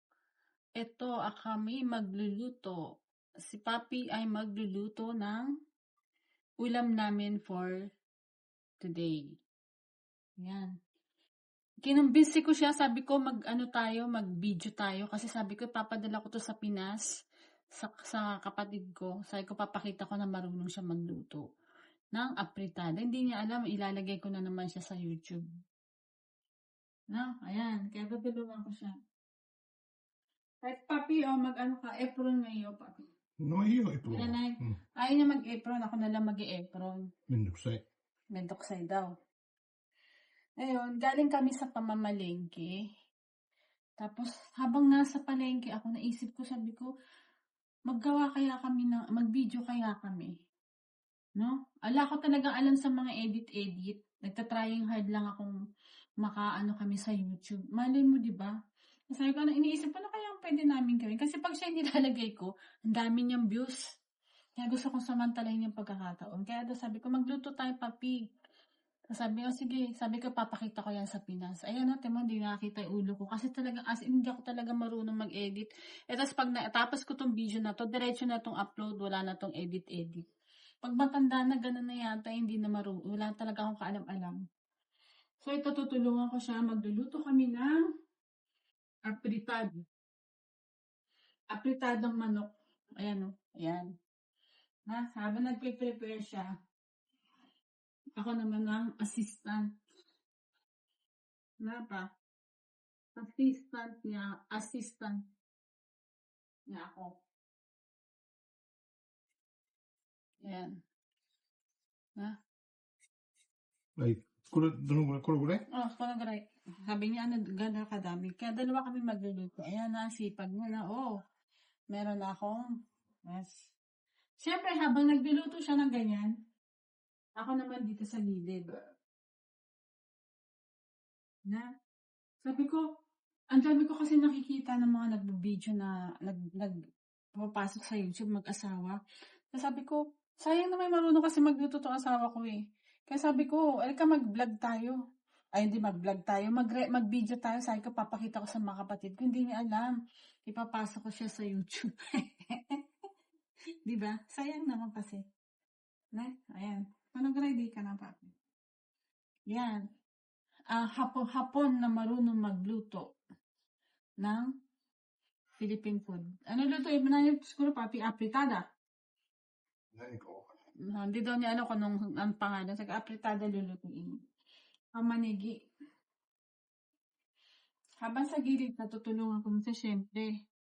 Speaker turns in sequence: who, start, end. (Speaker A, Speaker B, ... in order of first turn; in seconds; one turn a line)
Speaker A: 0.8-2.8
Speaker A: 3.4-5.5
Speaker A: 6.6-7.8
Speaker A: 8.8-9.2
Speaker A: 10.4-10.7
Speaker A: 11.9-17.0
Speaker A: 17.8-21.4
Speaker A: 22.1-25.4
Speaker A: 27.1-28.9
Speaker A: 30.6-33.0
Speaker B: 33.4-34.8
Speaker A: 34.1-37.0
Speaker B: 37.3-37.8
Speaker A: 38.3-39.1
Speaker A: 40.6-42.7
Speaker A: 44.0-46.9
Speaker A: 47.9-50.3
Speaker A: 51.4-55.5
Speaker A: 56.2-58.5
Speaker A: 59.1-63.8
Speaker A: 64.6-68.2
Speaker A: 69.1-80.2
Speaker A: 80.8-84.4
Speaker A: 85.4-87.8
Speaker A: 89.1-89.8
Speaker A: 91.5-92.5
Speaker A: 93.0-93.9
Speaker A: 94.9-96.5
Speaker A: 98.2-99.7
Speaker A: 101.6-102.1
Speaker A: 103.2-105.2
Speaker A: 106.7-107.1
Speaker A: 110.5-110.7
Speaker B: 114.0-115.6
Speaker A: 115.8-121.1
Speaker A: 121.9-122.7
Speaker A: 123.3-123.7
Speaker A: 124.4-126.3
Speaker A: 127.4-128.8
Speaker A: 132.4-132.8
Speaker A: 133.5-136.8
Speaker A: 137.4-139.0
Speaker A: 139.5-145.0
Speaker A: 145.6-149.9
Speaker A: 150.5-152.8
Speaker A: 153.9-155.2
Speaker A: 156.2-158.3
Speaker A: 159.5-159.8
Speaker A: 160.7-163.0
Speaker A: 164.2-164.5
Speaker A: 165.6-168.6
Speaker B: 169.9-170.5
Speaker A: 170.9-174.1
Speaker A: 175.0-175.5
Speaker A: 178.0-180.3